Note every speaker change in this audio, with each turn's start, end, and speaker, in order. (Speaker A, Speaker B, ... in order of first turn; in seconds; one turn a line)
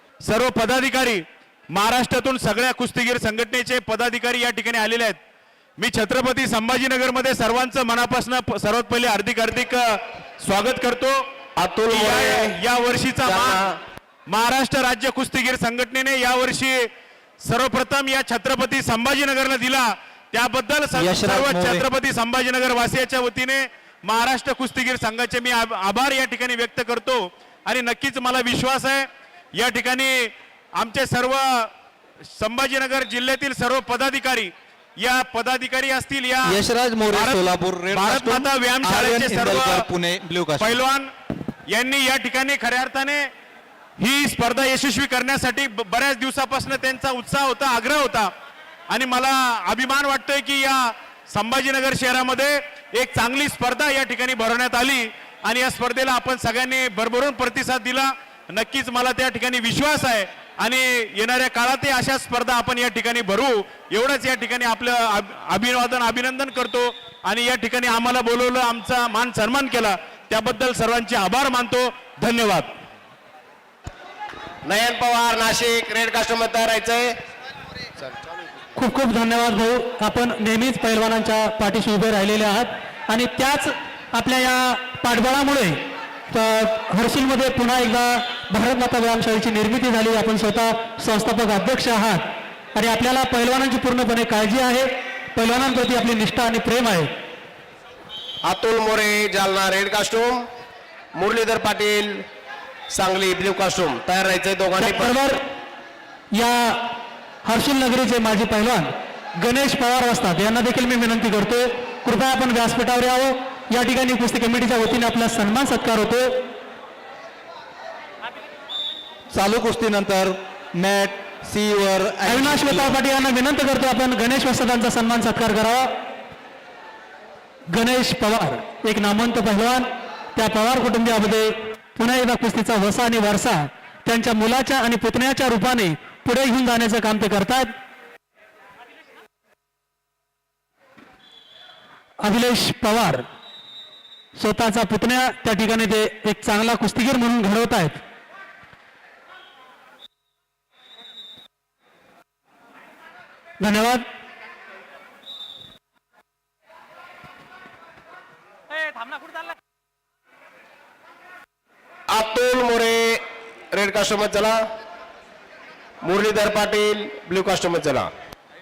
Speaker A: 0.2-5.2
Speaker A: 5.8-11.2
Speaker B: 11.6-12.6
Speaker A: 11.9-13.7
Speaker B: 13.2-13.8
Speaker A: 14.3-16.9
Speaker A: 17.4-31.7
Speaker C: 20.9-21.8
Speaker A: 32.3-39.9
Speaker C: 36.4-40.8
Speaker A: 40.6-41.1
Speaker A: 41.7-43.3
Speaker A: 44.0-48.3
Speaker A: 48.9-72.7
Speaker B: 74.6-77.2
Speaker D: 78.8-85.8
Speaker D: 86.3-92.2
Speaker D: 92.7-97.1
Speaker B: 98.4-100.5
Speaker B: 101.1-102.2
Speaker B: 102.9-105.1
Speaker D: 104.8-105.4
Speaker D: 106.3-106.8
Speaker D: 107.4-116.4
Speaker C: 119.3-123.0
Speaker D: 122.2-125.9
Speaker D: 127.7-137.7
Speaker D: 142.2-143.2
Speaker D: 144.3-148.0
Speaker D: 153.6-154.0
Speaker B: 162.1-163.2
Speaker B: 163.7-164.6
Speaker B: 166.0-168.1